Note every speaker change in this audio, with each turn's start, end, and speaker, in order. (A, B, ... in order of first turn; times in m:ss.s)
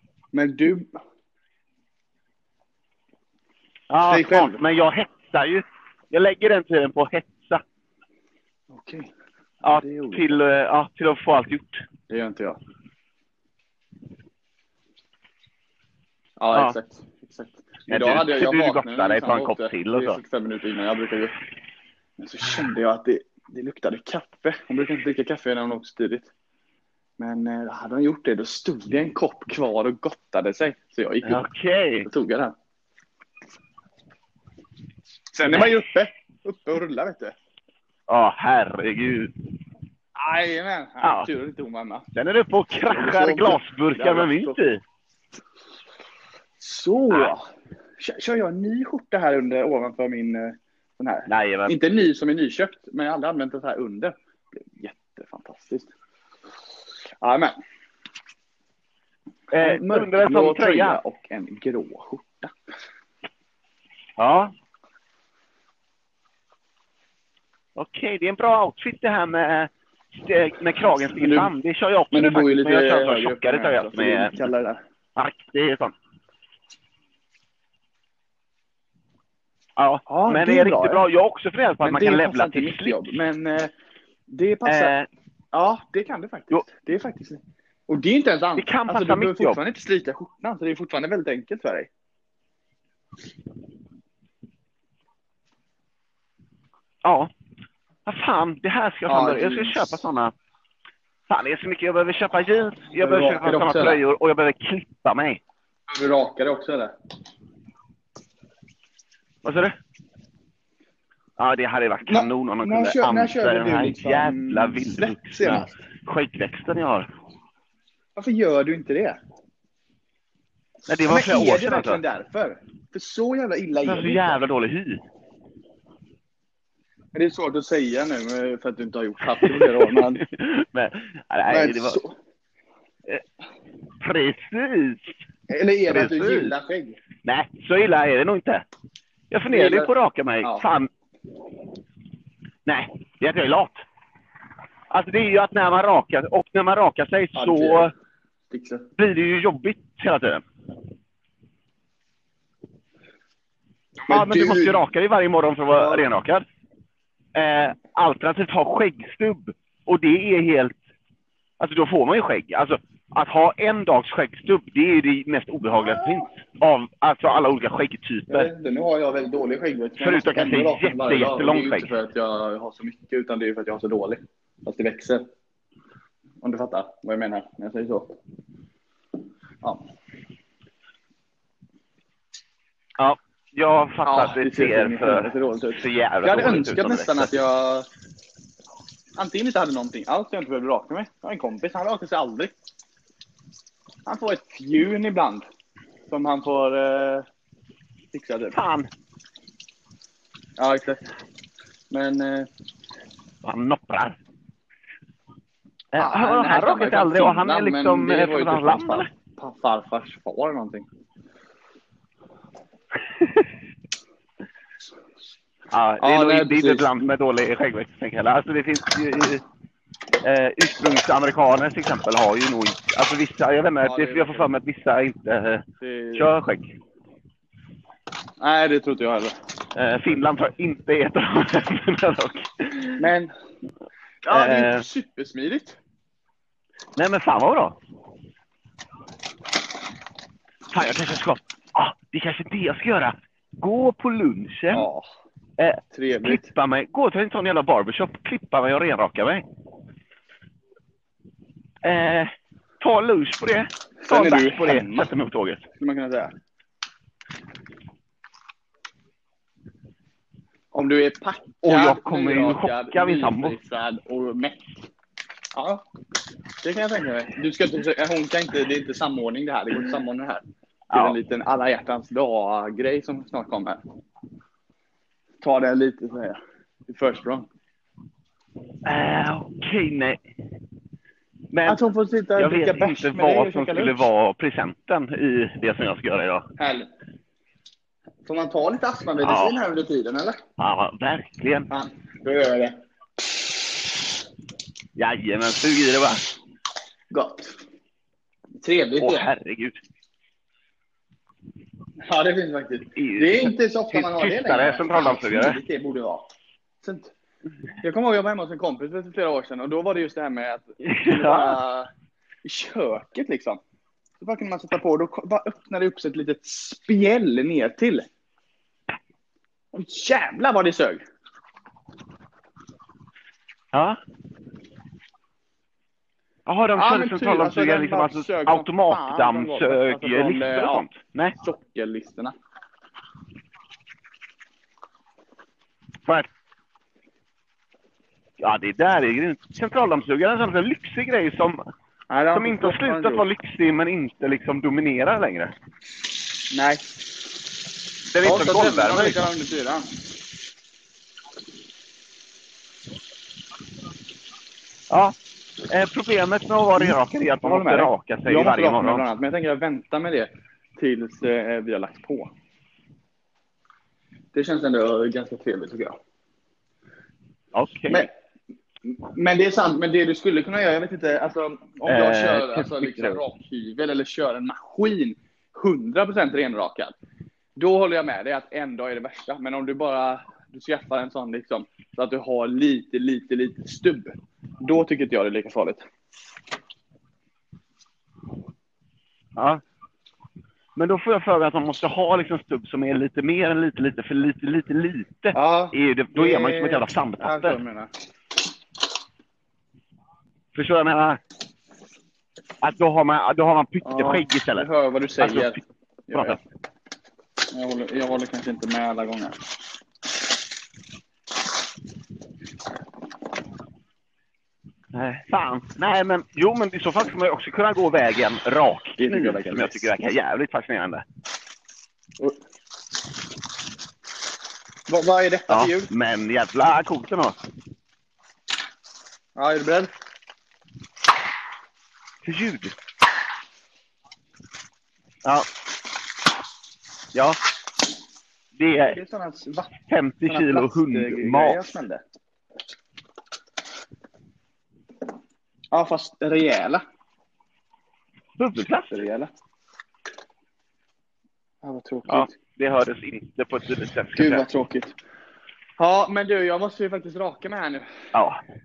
0:00.3-0:00.9 A
0:03.9-0:07.6 B
0:04.1-0:04.6 A
0:08.7-0:09.1 A
0:09.6-0:11.8 B
0:09.7-0:10.4 A
0:12.1-0:12.6 A
0:16.4-0:21.4 A
0:16.5-0:16.8 B
0:17.9-0:20.2 B
0:22.2-0:26.3 A
0:27.2-0:31.4 A
0:31.2-0:32.1 B
0:32.0-0:32.5 A
0:35.3-0:37.4 A
0:35.4-0:35.7 B
0:38.1-0:39.3 B
0:40.2-0:42.0 A
0:41.0-0:41.3 B
0:42.1-0:44.8 B
0:42.9-0:44.6 A
0:46.6-0:47.4 A
0:48.0-0:54.1 A
0:51.3-0:51.8 B
0:54.7-0:55.9 A
0:57.2-0:57.5 A
0:59.5-1:01.0 B
0:59.6-1:02.5 A
1:04.2-1:04.5 B
1:07.8-1:14.3 B
1:11.2-1:11.5 A
1:12.1-1:14.8 A
1:15.2-1:15.9 B
1:19.8-1:23.1 B
1:20.1-1:21.0 A
1:21.8-1:23.7 A
1:24.3-1:24.9 A
1:24.6-1:25.1 B
1:25.5-1:31.9 A
1:28.6-1:29.6 B
1:37.0-1:37.3 B
1:38.0-1:40.3 B
1:39.1-1:40.0 A
1:41.3-1:45.4 B
1:43.0-1:44.0 A
1:45.9-1:46.9 A
1:49.4-1:49.8 B
1:51.4-1:57.1 B
1:52.1-1:55.7 A
1:58.2-1:59.2 A
2:00.9-2:02.0 B
2:01.1-2:04.4 A
2:03.8-2:05.0 B
2:07.1-2:10.2 A
2:09.4-2:12.0 B
2:11.5-2:12.1 A
2:14.0-2:15.2 B
2:15.5-2:17.0 A
2:15.9-2:16.5 B
2:17.2-2:18.6 B
2:19.3-2:20.9 B
2:19.5-2:20.6 A
2:22.6-2:23.8 B
2:24.9-2:27.9 B
2:27.4-2:27.9 A
2:28.5-2:28.9 A
2:29.0-2:30.4 B
2:34.1-2:34.8 A
2:34.1-2:36.4 B
2:35.7-2:36.1 A
2:37.4-2:40.8 B
2:41.6-2:48.5 B
2:45.8-2:46.2 A
2:48.3-2:55.2 A
2:50.0-2:51.9 B
2:56.4-2:58.1 A
2:59.6-2:59.9 A
3:03.0-3:07.3 B
3:04.0-3:07.9 A
3:09.2-3:12.5 A
3:14.0-3:15.4 A
3:16.1-3:17.2 A
3:18.1-3:18.6 A
3:18.5-3:18.9 B
3:20.6-3:21.0 A
3:21.9-3:22.5 A
3:23.4-3:24.2 B
3:25.9-3:29.1 B
3:26.0-3:30.9 A
3:35.7-3:39.4 B
3:36.0-3:36.9 A
3:40.2-3:46.8 B
3:43.8-3:44.5 A
3:45.8-3:46.3 A
3:48.4-3:49.4 A
3:49.8-3:53.1 B
3:53.0-3:53.3 A
3:54.2-3:55.8 A
3:54.3-3:54.9 B
3:57.0-3:57.8 B
4:00.7-4:04.9 B
4:04.7-4:05.1 A
4:05.6-4:09.4 B
4:05.9-4:06.5 A
4:11.8-4:15.7 B
4:14.0-4:15.1 A
4:15.8-4:16.3 A
4:20.7-4:24.6 A
4:21.6-4:23.6 B
4:25.5-4:25.8 A
4:26.6-4:33.8 A
4:30.9-4:31.2 B
4:35.4-4:37.5 A
4:38.8-4:40.2 B
4:41.5-4:41.8 B
4:41.6-4:44.0 A
4:42.4-4:46.5 B
4:46.6-4:46.9 A
4:48.2-4:50.4 A
4:49.2-4:49.6 B
4:50.6-4:51.7 B
4:51.7-4:52.8 A
4:55.0-4:56.3 B
4:57.1-4:57.6 A
4:58.6-4:59.3 A
4:59.0-4:59.8 B
5:02.0-5:06.3 A
5:03.0-5:05.6 B
5:06.8-5:07.1 A
5:07.8-5:11.9 A
5:10.8-5:11.6 B
5:12.4-5:13.6 A
5:14.2-5:18.1 A
5:19.7-5:21.0 A
5:23.7-5:24.0 B
5:26.5-5:31.4 B
5:26.8-5:32.4 A
5:38.4-5:41.6 B
5:42.1-5:43.3 A
5:42.3-5:45.5 B
5:46.5-5:46.8 A
5:48.1-5:49.2 B
5:48.2-5:49.9 A
5:54.9-5:55.2 B
5:55.7-5:59.0 B
5:56.8-6:02.3 A
6:04.3-6:06.0 A
6:07.5-6:08.1 B
6:08.8-6:17.0 A
6:11.8-6:13.2 B
6:17.6-6:25.8 A
6:29.4-6:29.6 B
6:30.8-6:37.6 B
6:35.3-6:37.9 A
6:40.5-6:41.2 B
6:42.6-6:44.7 B
6:43.8-6:46.4 A
6:45.2-6:45.6 B
6:46.1-6:46.4 B
6:47.5-6:49.4 A
6:54.9-7:01.0 B
6:59.0-6:59.9 A
7:04.9-7:05.9 A
7:05.5-7:07.4 B
7:09.4-7:09.9 A
7:12.2-7:12.7 B
7:17.1-7:17.4 B
7:18.6-7:19.0 B
7:18.8-7:19.7 A
7:19.8-7:21.6 B
7:20.2-7:22.0 A
7:25.7-7:26.8 A
7:28.4-7:29.1 B
7:28.9-7:29.3 A
7:31.6-7:32.4 A
7:32.0-7:34.5 B
7:34.2-7:35.0 A
7:35.8-7:37.9 A
7:38.1-7:38.4 B